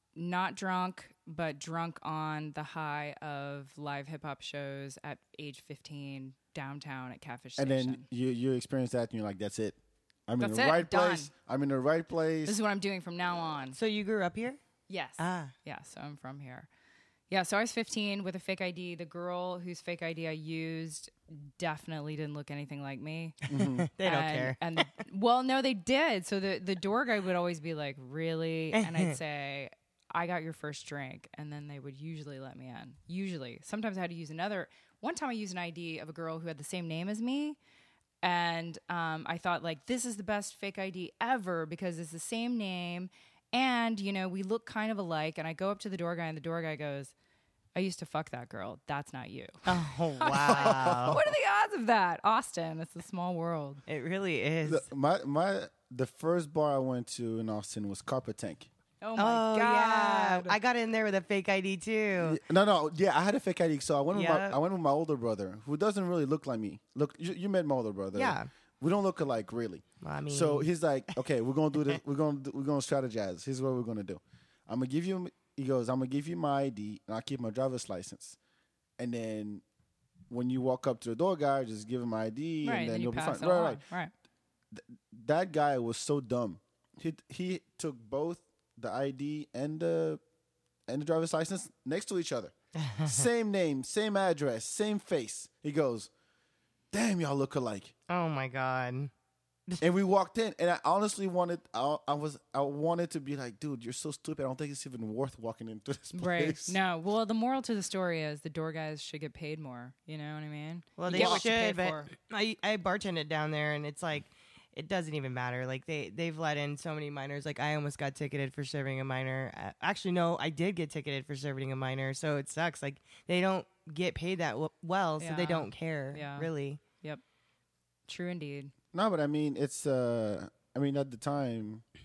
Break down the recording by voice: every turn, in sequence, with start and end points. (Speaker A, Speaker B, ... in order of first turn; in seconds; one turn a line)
Speaker A: 0.1-8.0
Speaker B: 7.6-12.6
Speaker A: 10.4-11.3
Speaker A: 12.4-13.8
Speaker C: 13.7-14.6
Speaker A: 14.9-16.7
Speaker C: 15.2-15.5
Speaker A: 17.3-23.4
Speaker B: 23.5-23.9
Speaker C: 23.6-24.6
Speaker A: 24.0-37.6
Speaker C: 28.7-29.1
Speaker A: 38.2-47.1
Speaker A: 47.7-49.6
Speaker C: 49.6-51.2
Speaker A: 50.2-53.8
Speaker B: 50.5-51.2
Speaker C: 53.9-54.9
Speaker B: 54.6-58.7
Speaker A: 59.0-60.5
Speaker C: 59.2-62.4
Speaker B: 62.2-78.4
Speaker C: 64.1-64.6
Speaker C: 68.1-68.5
Speaker C: 70.0-70.7
Speaker B: 79.0-79.6
Speaker B: 80.3-83.8
Speaker A: 82.6-84.1
Speaker B: 84.7-90.2
Speaker B: 90.9-92.5
Speaker C: 92.8-93.3
Speaker B: 93.0-96.1
Speaker B: 96.9-97.9
Speaker C: 98.1-99.1
Speaker B: 99.8-106.8
Speaker A: 106.1-112.1
Speaker C: 111.0-126.8
Speaker B: 111.1-111.5
Speaker A: 125.2-127.2
Speaker A: 128.1-128.7
Speaker B: 128.9-131.8